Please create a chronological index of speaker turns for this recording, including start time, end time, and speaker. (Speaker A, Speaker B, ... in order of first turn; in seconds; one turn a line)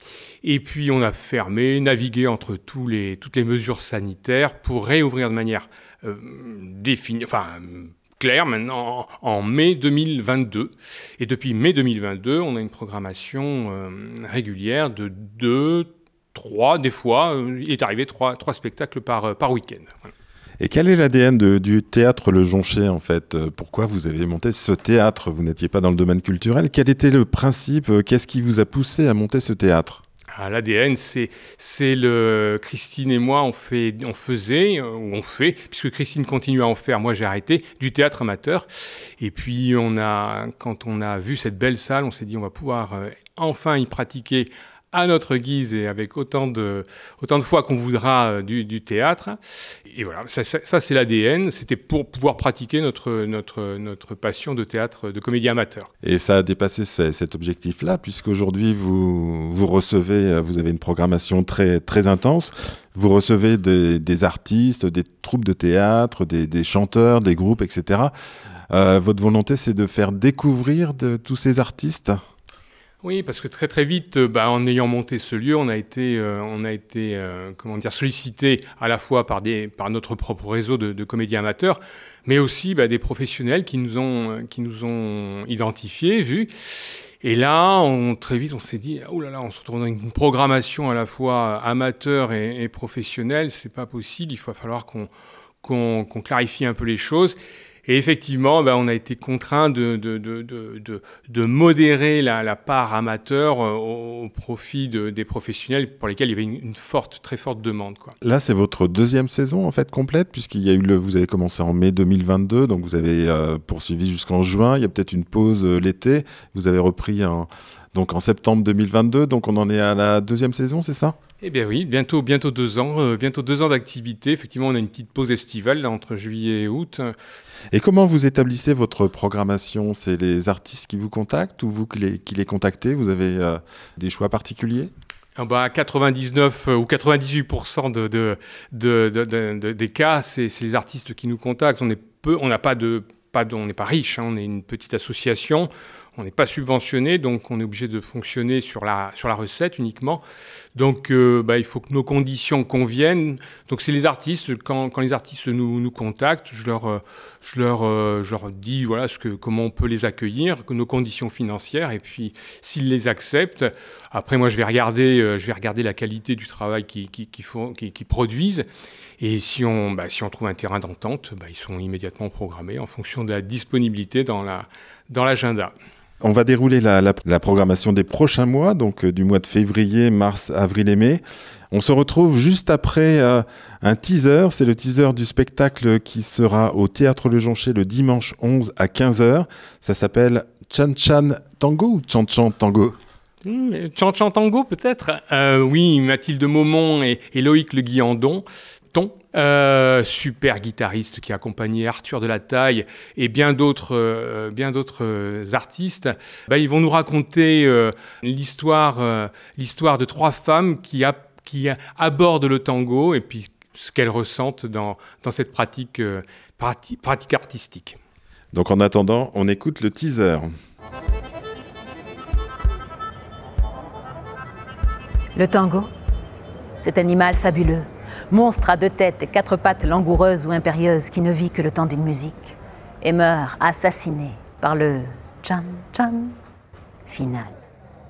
Speaker A: 0.4-20.0
Speaker B: 20.6-30.0
Speaker A: 30.3-38.6
Speaker A: 39.2-49.4
Speaker A: 49.9-55.9
Speaker B: 56.0-68.1
Speaker B: 68.7-72.2
Speaker A: 73.0-86.5
Speaker A: 87.2-95.1
Speaker A: 95.6-108.2
Speaker B: 108.2-121.2
Speaker A: 121.4-127.1
Speaker B: 127.7-134.9
Speaker A: 135.4-150.2
Speaker A: 150.8-168.7
Speaker A: 169.2-175.7
Speaker B: 176.2-193.0
Speaker A: 193.4-218.0
Speaker B: 218.5-220.5
Speaker C: 225.3-225.9
Speaker C: 226.8-236.3
Speaker C: 237.1-237.6